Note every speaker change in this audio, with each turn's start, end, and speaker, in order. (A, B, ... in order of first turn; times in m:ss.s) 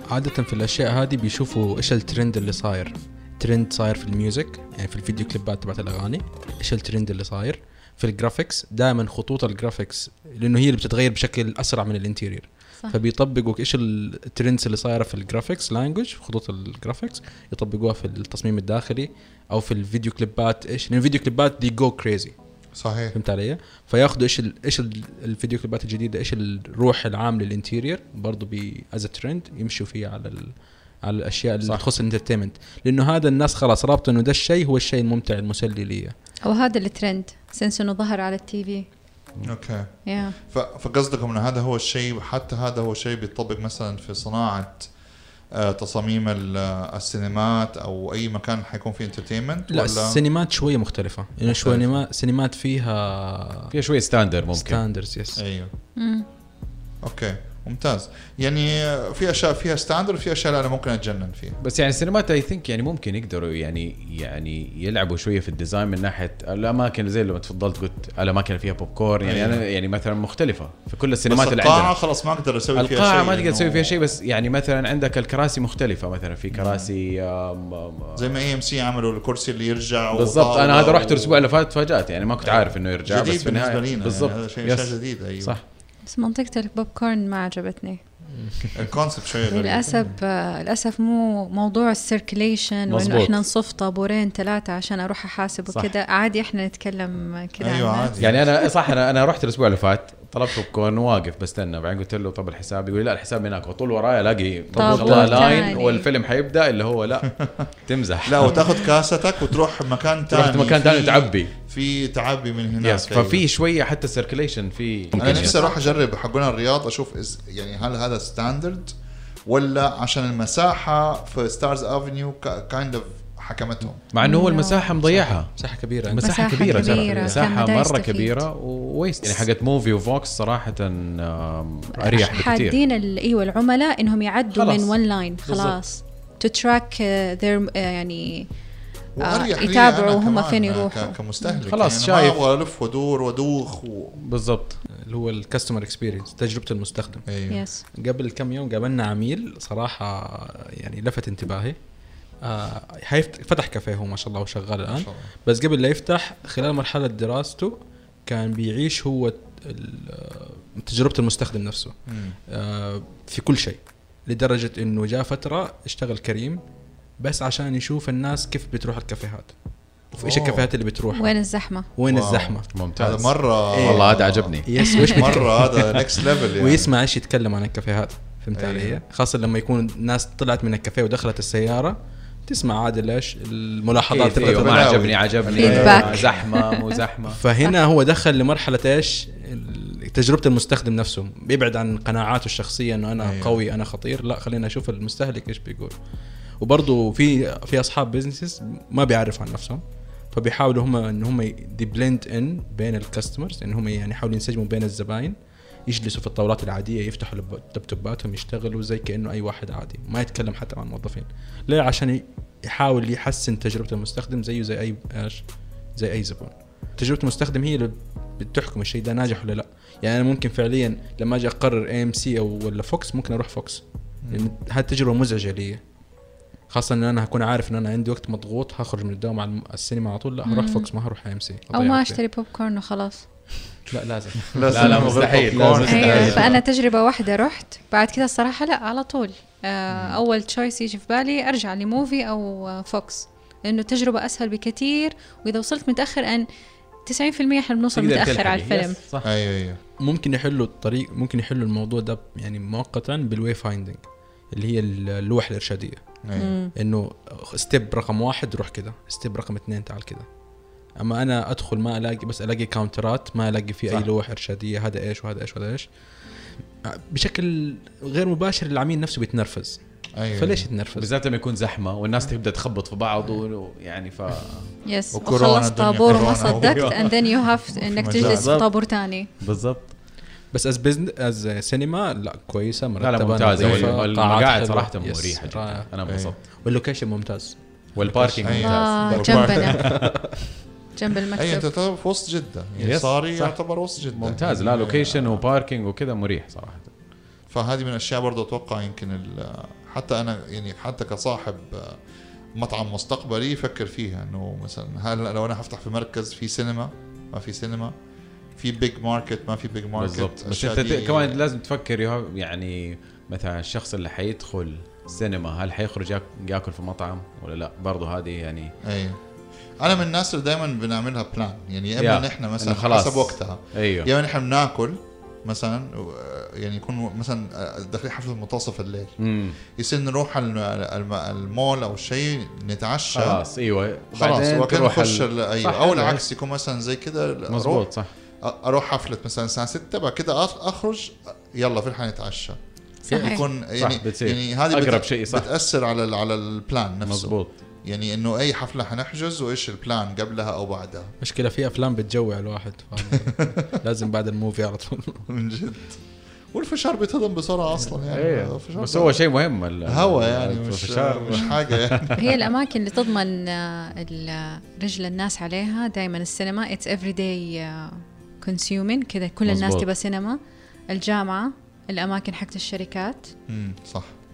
0:00.1-0:22.3 A
0:22.7-0:23.2 B
0:23.1-0:30.5 A
0:31.0-0:36.1 A
0:36.4-0:38.8 C
0:39.4-0:44.9 B
0:40.0-0:40.4 C
0:45.6-0:50.2 B
0:49.7-0:53.7 A
0:51.5-0:52.0 B
0:53.7-0:54.8 D
0:54.5-0:55.4 A
0:55.4-0:55.7 B
0:56.0-0:56.2 C
0:57.0-1:01.6 B
1:01.6-1:11.9 D
1:09.2-1:09.6 B
1:11.3-1:14.0 B
1:12.8-1:18.4 D
1:16.5-1:16.9 B
1:18.2-1:21.5 B
1:20.1-1:25.6 D
1:22.4-1:25.6 B
1:26.1-1:28.0 C
1:28.3-1:28.8 A
1:28.7-1:30.1 B
1:29.5-1:38.1 C
1:32.9-1:33.4 D
1:37.6-1:38.4 B
1:38.2-1:48.8 D
1:44.7-1:46.1 C
1:44.8-1:45.6 A
1:47.3-1:47.6 B
1:48.3-1:53.4 B
1:50.3-1:51.5 D
1:52.8-1:55.6 D
1:55.2-1:58.9 B
1:55.2-1:56.0 C
1:59.5-2:04.0 B
2:04.1-2:05.5 D
2:04.2-2:04.9 C
2:04.9-2:07.4 A
2:06.1-2:12.8 D
2:06.2-2:08.4 C
2:12.0-2:18.4 C
2:14.5-2:15.8 D
2:19.2-2:24.2 B
2:19.2-2:21.6 C
2:21.7-2:22.4 D
2:24.2-2:24.8 D
2:25.1-2:27.2 A
2:27.3-2:27.6 B
2:27.5-2:27.8 C
2:28.0-2:31.8 A
2:32.4-2:41.9 A
2:34.9-2:35.3 B
2:42.1-2:42.4 B
2:42.5-2:46.6 A
2:47.2-2:49.5 A
2:50.1-2:51.4 A
2:50.2-2:50.7 B
2:51.1-2:51.9 C
2:51.9-2:52.7 A
2:52.0-2:56.9 B
2:52.7-2:54.7 D
2:53.7-3:06.4 A
2:55.0-2:55.3 C
2:58.5-2:59.0 B
3:04.1-3:07.4 D
3:04.4-3:06.2 B
3:05.5-3:06.9 C
3:07.3-3:15.9 A
3:13.2-3:13.6 B
3:16.6-3:35.4 A
3:36.0-3:45.8 A
3:44.2-3:44.5 B
3:46.7-3:51.7 A
3:50.4-3:50.9 C
3:51.7-3:52.2 B
3:51.7-3:53.2 C
3:53.9-3:56.4 A
3:54.5-3:56.6 B
3:54.7-3:56.6 D
3:55.8-4:06.4 C
3:59.9-4:00.2 B
4:07.0-4:09.0 C
4:07.9-4:09.3 D
4:09.2-4:09.8 B
4:10.0-4:16.0 A
4:16.2-4:16.6 B
4:16.4-4:16.7 C
4:16.8-4:20.2 A
4:21.0-4:25.9 A
4:26.9-4:29.8 A
4:30.2-4:30.7 B
4:30.3-4:31.1 A
4:31.0-4:34.7 D
4:34.8-4:39.2 C
4:35.1-4:37.0 B
4:36.1-4:37.1 D
4:37.9-4:38.6 B
4:38.0-4:39.9 D
4:40.5-4:45.9 A
4:43.0-4:46.4 D
4:43.6-4:44.0 B
4:46.1-4:46.3 B
4:46.6-4:50.2 A
4:48.0-4:48.9 D
4:48.4-4:50.0 B
4:48.5-4:49.7 C
4:50.9-4:51.7 C
4:51.4-4:55.4 B
4:52.8-4:53.6 D
4:54.1-4:56.9 D
4:57.5-5:02.0 B
5:02.6-5:07.9 B
5:08.6-5:11.4 B
5:10.0-5:18.7 D
5:18.8-5:19.2 B
5:19.8-5:29.2 B
5:22.0-5:24.1 D
5:29.2-5:29.6 D
5:29.8-5:33.4 B
5:33.1-5:36.2 D
5:34.1-5:37.9 B
5:37.5-5:38.1 D
5:38.4-5:42.6 B
5:43.0-5:43.4 C
5:43.1-5:43.4 A
5:43.1-5:51.1 B
5:43.8-5:45.5 D
5:47.0-5:47.5 D
5:51.2-5:55.2 A
5:55.3-5:56.0 B
5:56.5-5:59.2 B
5:58.1-6:02.4 D
5:59.8-6:02.1 B
6:02.2-6:10.4 C
6:09.4-6:09.9 D
6:10.9-6:13.3 C
6:13.5-6:14.1 B